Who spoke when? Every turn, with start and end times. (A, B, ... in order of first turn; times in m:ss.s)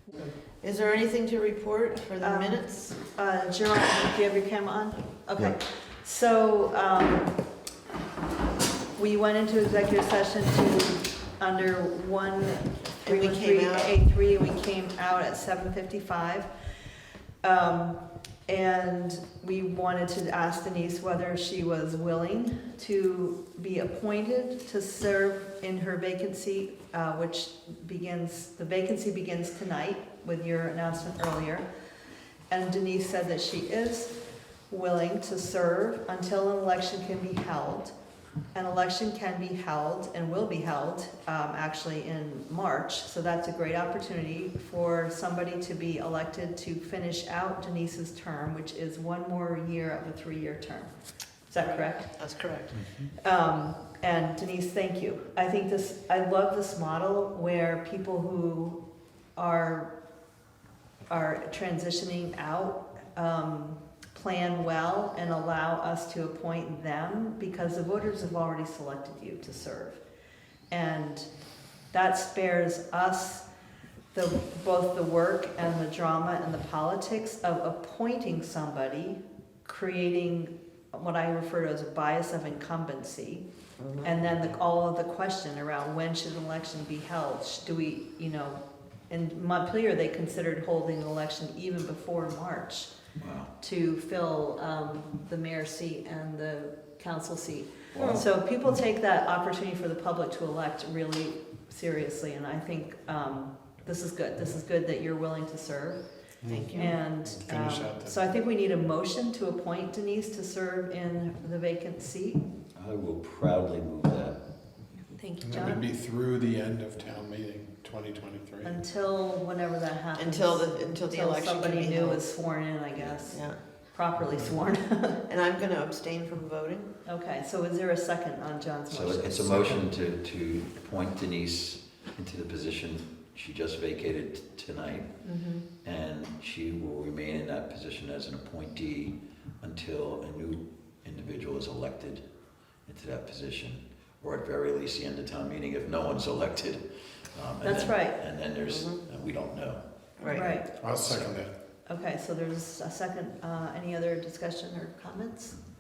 0:00.6-0:03.0 A
0:02.2-0:07.4 B
0:09.0-0:16.5 B
0:13.0-0:14.0 A
0:17.4-0:31.7 B
0:32.5-0:34.1 B
0:34.7-0:37.9 B
0:38.6-0:50.9 B
0:51.5-0:52.3 B
0:51.6-0:52.8 A
0:52.8-0:53.1 C
0:53.2-0:58.8 B
0:59.4-0:59.9 B
1:01.1-1:10.0 B
1:10.7-1:11.3 B
1:11.9-1:13.5 B
1:14.1-1:23.4 B
1:23.8-1:24.2 A
1:24.0-1:28.6 B
1:29.1-1:32.9 B
1:33.2-1:33.5 C
1:33.6-1:46.0 B
1:38.0-1:38.2 C
1:46.4-1:48.2 D
1:46.5-1:47.0 A
1:46.7-1:52.4 B
1:52.8-1:54.4 C
1:55.2-1:55.8 B
1:55.4-1:58.8 D
1:58.6-2:05.2 B
2:00.2-2:02.3 A
2:03.0-2:03.2 C
2:03.3-2:03.6 A
2:05.3-2:06.9 A
2:07.1-2:09.8 B
2:08.9-2:15.2 C
2:15.2-2:15.6 B
2:15.8-2:22.2 C
2:22.9-2:26.8 C
2:27.4-2:29.8 C
2:27.6-2:28.2 B
2:28.7-2:29.0 A
2:30.2-2:30.6 A
2:30.3-2:30.7 B
2:30.8-2:31.5 D
2:31.0-2:31.4 C
2:31.9-2:35.6 B